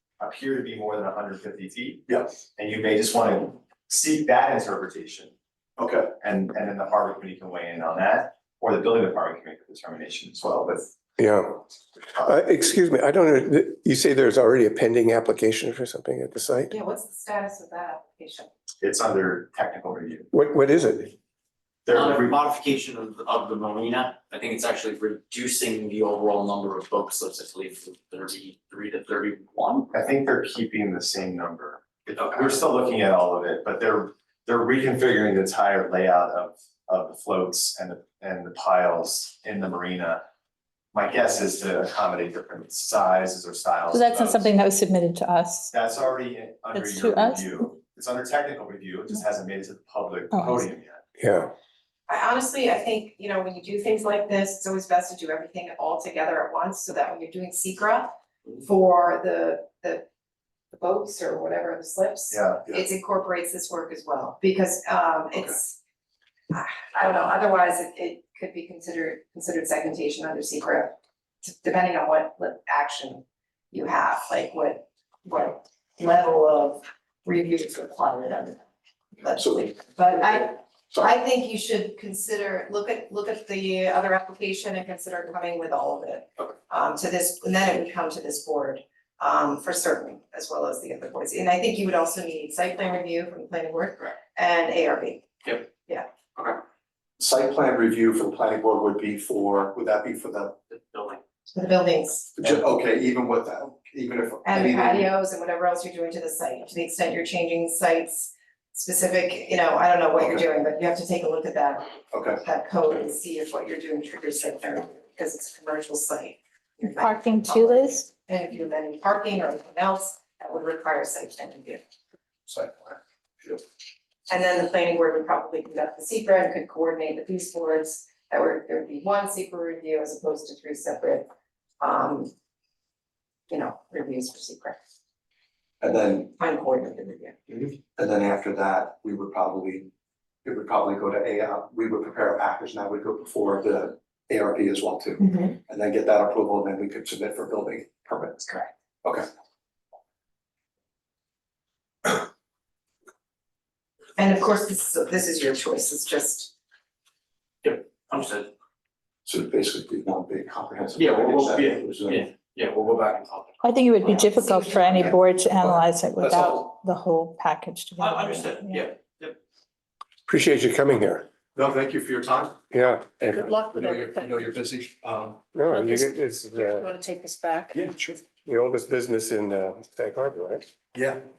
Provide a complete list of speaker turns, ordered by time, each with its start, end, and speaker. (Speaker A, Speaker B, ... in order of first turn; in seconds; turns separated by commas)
Speaker A: 0.2-2.0, Speaker B: 2.1-2.4, Speaker A: 2.6-5.3, Speaker B: 5.8-6.1, Speaker A: 6.2-10.9, Speaker C: 11.2-11.6, Speaker C: 12.1-16.7, Speaker D: 16.7-18.5, Speaker A: 18.8-20.3, Speaker C: 20.3-21.1, Speaker A: 21.9-22.4, Speaker E: 21.9-29.9, Speaker A: 29.9-40.2, Speaker A: 40.9-44.5, Speaker F: 43.9-45.7, Speaker A: 45.7-51.0, Speaker F: 46.7-47.7, Speaker F: 50.3-50.7, Speaker C: 51.2-51.5, Speaker D: 52.1-60.1, Speaker D: 60.7-65.8, Speaker A: 62.3-62.6, Speaker D: 66.5-78.6, Speaker D: 79.2-96.1, Speaker B: 79.4-79.7, Speaker B: 97.2-101.2, Speaker D: 101.5-102.3, Speaker B: 102.4-105.1, Speaker D: 104.5-121.8, Speaker B: 112.1-112.4, Speaker F: 117.0-118.1, Speaker B: 122.5-123.6, Speaker D: 124.3-131.3, Speaker D: 131.8-132.3, Speaker D: 133.5-134.8, Speaker B: 135.8-136.3, Speaker D: 136.1-137.4, Speaker B: 137.5-139.9, Speaker B: 140.4-149.3, Speaker D: 154.2-156.5, Speaker E: 157.6-158.5, Speaker B: 159.3-163.2, Speaker E: 161.0-165.2, Speaker F: 163.6-168.9, Speaker B: 165.6-166.6, Speaker E: 168.0-169.4, Speaker C: 170.3-171.3, Speaker B: 171.6-172.6, Speaker C: 172.7-173.4, Speaker B: 173.2-175.5, Speaker G: 173.4-174.2, Speaker C: 175.5-176.9, Speaker G: 176.6-177.8, Speaker B: 177.7-178.2, Speaker C: 178.4-180.7, Speaker B: 180.9-181.2